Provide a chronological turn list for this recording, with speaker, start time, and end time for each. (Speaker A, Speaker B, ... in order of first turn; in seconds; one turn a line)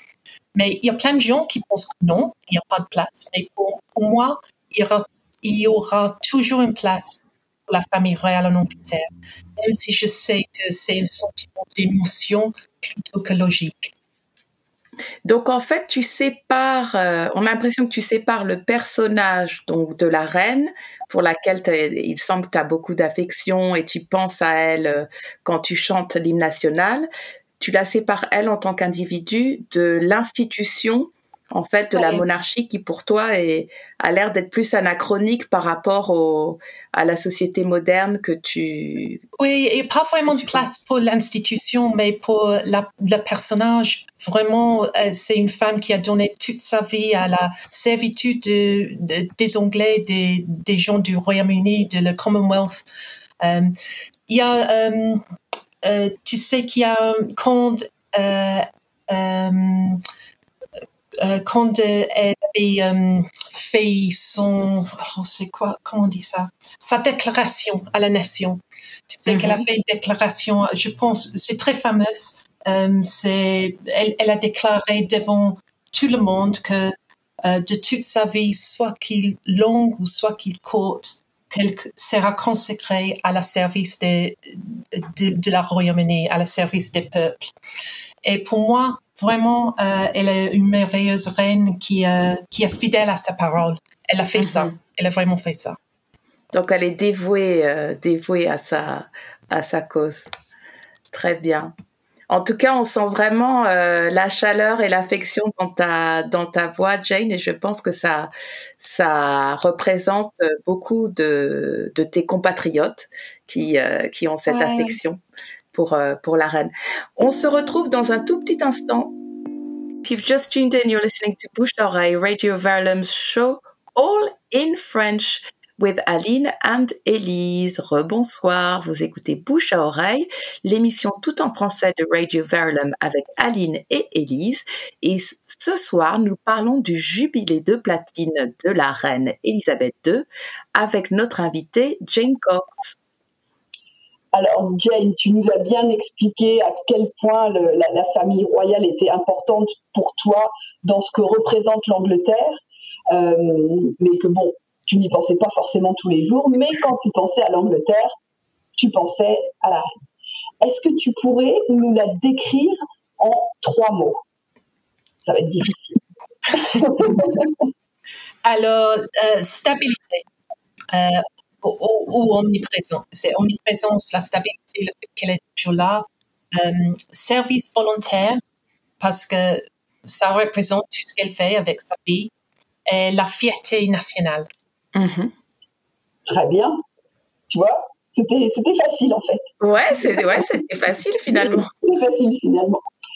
Speaker A: 0.5-13.9
Speaker B: 15.2-27.1
Speaker B: 27.6-39.2
Speaker A: 31.9-32.2
Speaker A: 39.4-52.8
Speaker B: 40.3-40.7
Speaker A: 53.4-53.7
Speaker A: 54.3-55.2
Speaker A: 55.8-60.0
Speaker A: 61.2-76.9
Speaker B: 69.3-69.6
Speaker A: 77.4-87.5
Speaker A: 88.2-95.8
Speaker B: 94.3-94.8
Speaker B: 96.5-100.3
Speaker B: 101.1-101.7
Speaker B: 102.3-115.2
Speaker A: 114.5-115.0
Speaker B: 115.7-119.1
Speaker B: 120.0-142.9
Speaker C: 144.3-158.1
Speaker C: 158.8-159.8
Speaker C: 160.6-164.2
Speaker C: 165.2-166.0
Speaker C: 166.6-167.5
Speaker A: 168.4-170.2
Speaker A: 170.9-178.4
Speaker A: 179.0-182.3
Speaker A: 182.9-184.5
Speaker B: 184.9-185.3
Speaker C: 186.2-186.8
Speaker C: 187.5-189.6
Speaker B: 189.6-191.7
Speaker C: 191.3-192.8